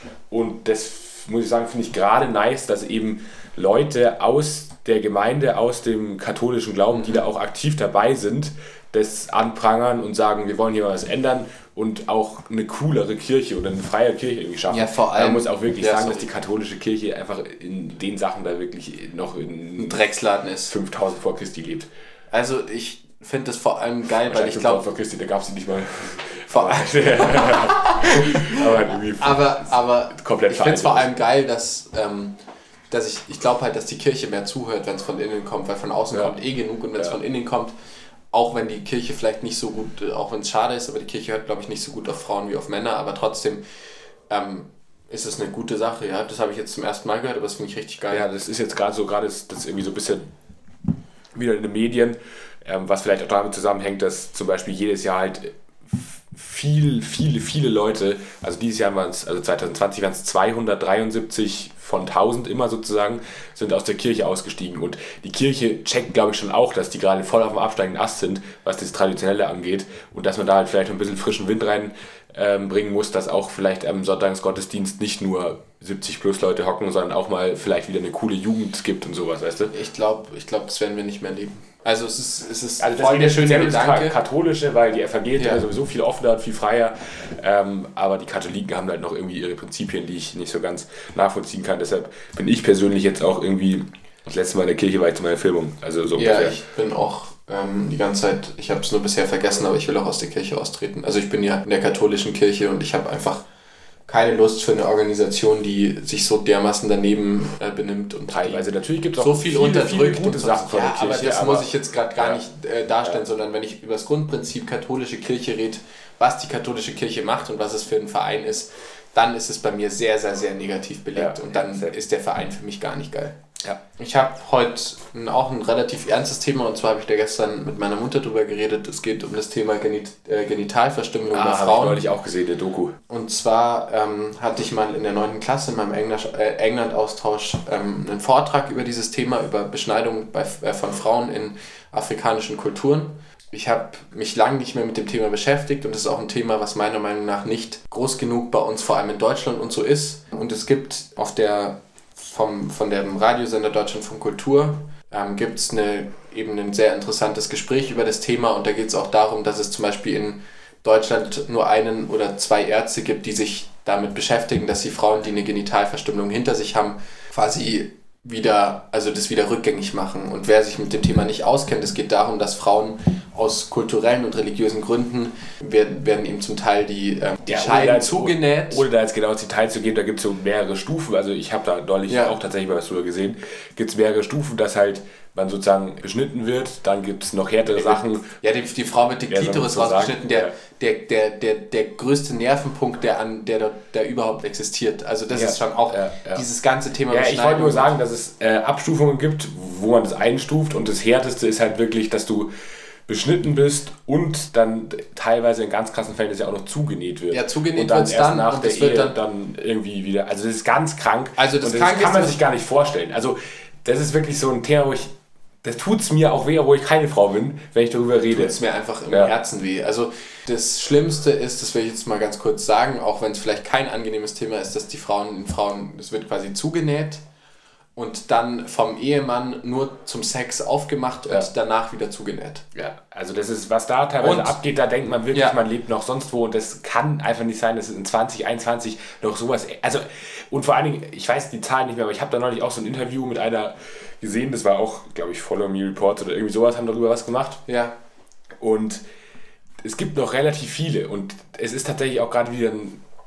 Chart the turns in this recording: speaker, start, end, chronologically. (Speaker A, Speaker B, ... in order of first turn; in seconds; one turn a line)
Speaker A: 0.3-20.0
Speaker B: 6.9-7.2
Speaker B: 14.7-16.3
Speaker B: 19.8-20.7
Speaker A: 20.7-21.9
Speaker B: 22.3-24.8
Speaker A: 24.2-31.1
Speaker B: 26.5-32.4
Speaker B: 32.9-37.7
Speaker A: 36.1-36.4
Speaker B: 38.3-43.6
Speaker B: 44.3-48.2
Speaker A: 48.1-50.2
Speaker A: 51.3-79.7
Speaker B: 79.7-84.2
Speaker A: 82.8-96.5
Speaker B: 85.4-85.6
Speaker B: 96.2-103.4
Speaker B: 104.1-123.4
Speaker A: 108.3-112.4
Speaker A: 121.1-121.9
Speaker B: 124.0-132.0
Speaker A: 131.3-133.0
Speaker B: 133.1-178.8
Speaker A: 177.5-188.4
Speaker B: 182.1-182.3
Speaker B: 187.8-197.9
Speaker A: 189.3-190.5
Speaker A: 195.3-196.4
Speaker A: 197.1-202.5
Speaker A: 203.1-218.5
Speaker B: 207.3-209.2
Speaker B: 211.4-212.4
Speaker B: 218.3-227.2
Speaker B: 227.9-232.7
Speaker A: 232.7-247.6
Speaker B: 234.2-234.6
Speaker B: 235.3-235.6
Speaker B: 247.7-247.9
Speaker A: 248.6-249.0
Speaker A: 249.8-253.0